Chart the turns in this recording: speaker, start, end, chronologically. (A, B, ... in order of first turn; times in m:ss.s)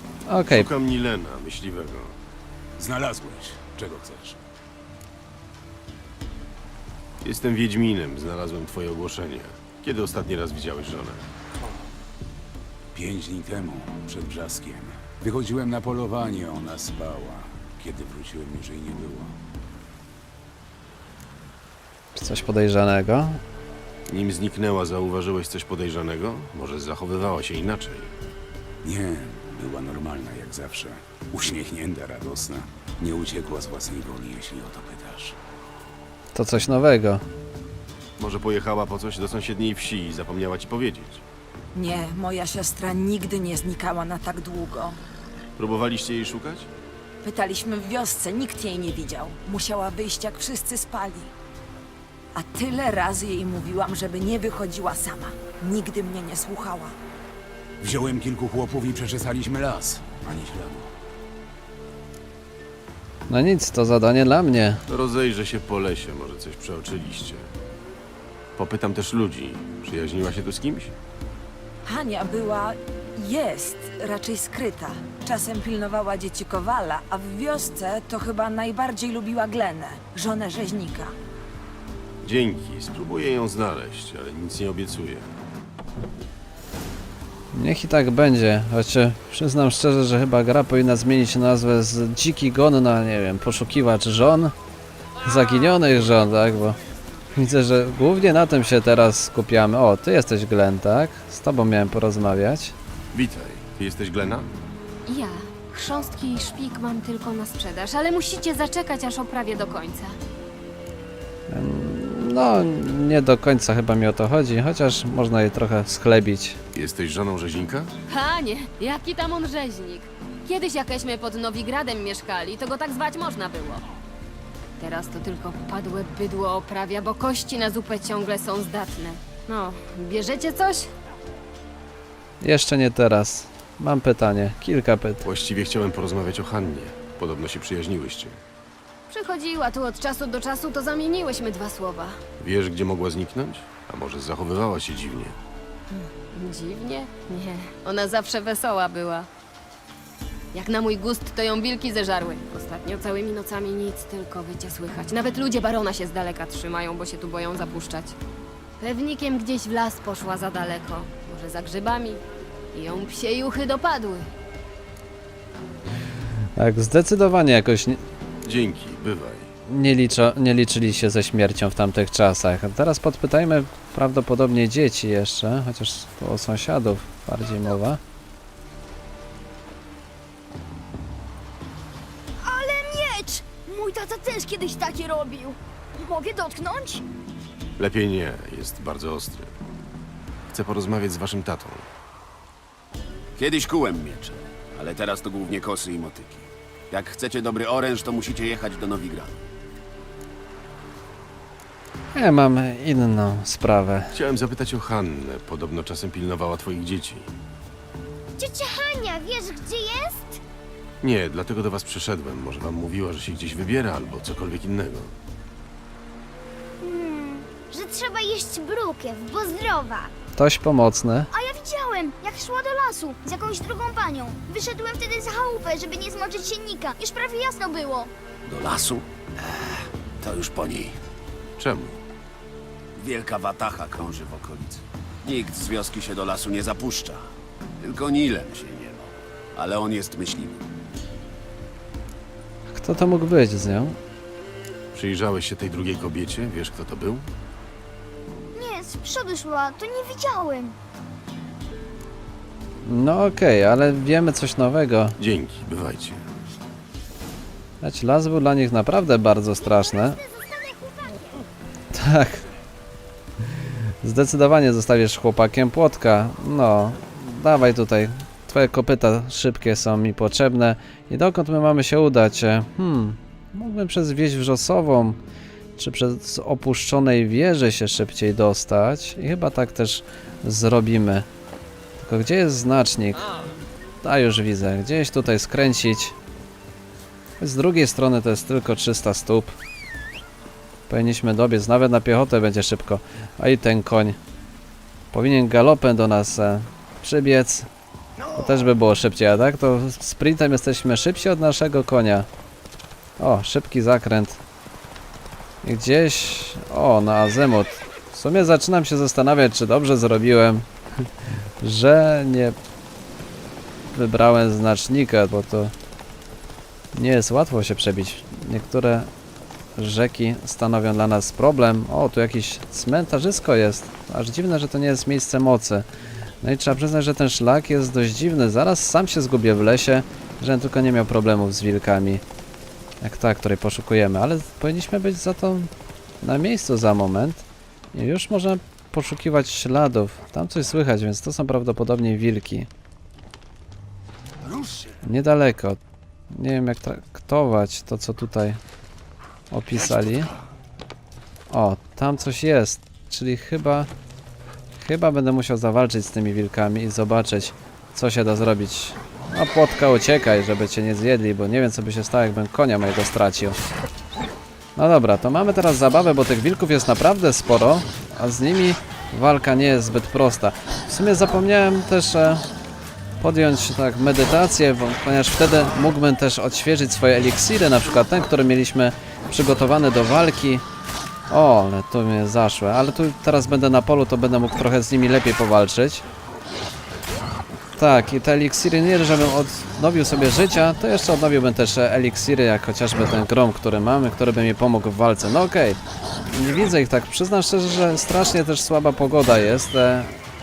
0:00.3-0:00.7 A
0:00.5-0:02.2 B
0:02.8-0:04.4 C
0:07.2-0:11.3 B
0:12.9-0:19.4 C
0:22.2-0:23.4 A
0:24.1-0:28.1 B
0:28.8-0:35.4 C
0:36.4-0:37.2 A
0:38.2-0:41.2 B
0:41.8-0:45.0 D
0:45.6-0:46.7 B
0:47.2-0:51.3 D
0:52.3-0:57.0 D
0:57.8-1:00.9 C
1:03.3-1:04.8 A
1:04.9-1:07.5 B
1:08.6-1:11.0 B
1:11.8-1:21.2 D
1:22.2-1:25.3 B
1:27.5-1:34.5 A
1:35.2-1:36.8 A
1:37.4-1:42.8 A
1:43.1-1:44.5 B
1:45.1-1:50.2 E
1:51.5-1:56.6 A
1:56.7-1:57.9 B
1:58.1-2:03.8 E
2:04.8-2:10.9 E
2:12.4-2:15.2 A
2:15.2-2:18.4 B
2:19.1-2:22.2 E
2:22.4-2:25.4 B
2:25.9-2:29.3 E
2:30.5-2:38.2 E
2:38.8-2:42.2 E
2:42.7-2:44.3 E
2:46.6-2:48.0 A
2:48.4-2:49.5 B
2:49.7-2:58.0 A
3:02.4-3:07.0 F
3:07.8-3:09.5 B
3:10.5-3:11.9 B
3:13.4-3:19.4 G
3:22.1-3:24.2 A
3:24.1-3:27.3 B
3:28.4-3:30.4 F
3:31.0-3:35.2 B
3:36.8-3:40.1 F
3:40.4-3:41.3 A
3:41.3-3:48.1 F
3:48.5-3:51.0 G
3:51.6-3:52.0 B
3:53.0-4:00.6 G
4:02.7-4:04.0 A
4:04.9-4:07.3 B
4:08.5-4:10.8 F
4:12.8-4:15.2 A
4:15.2-4:16.3 B
4:17.8-4:20.2 A
4:19.6-4:21.5 F
4:21.9-4:22.4 A
4:24.0-4:35.2 A
4:35.8-4:41.3 A
4:42.0-4:43.3 A
4:44.0-4:46.2 A
4:47.4-4:49.5 A
4:50.9-4:54.2 A
4:55.1-4:57.7 A
4:58.4-5:02.3 A
5:03.2-5:04.4 A
5:05.6-5:10.7 A
5:11.6-5:12.6 A
5:13.9-5:15.7 A
5:16.9-5:19.1 A
5:19.8-5:25.9 A
5:26.4-5:32.2 A
5:33.0-5:35.7 A
5:36.2-5:42.7 A
5:45.0-5:45.8 A
5:46.3-5:48.6 A
5:49.5-5:50.3 A
5:51.5-5:53.9 A
5:54.8-6:03.6 A
6:04.8-6:12.4 A
6:13.2-6:20.6 A
6:21.3-6:26.0 A
6:27.8-6:40.2 A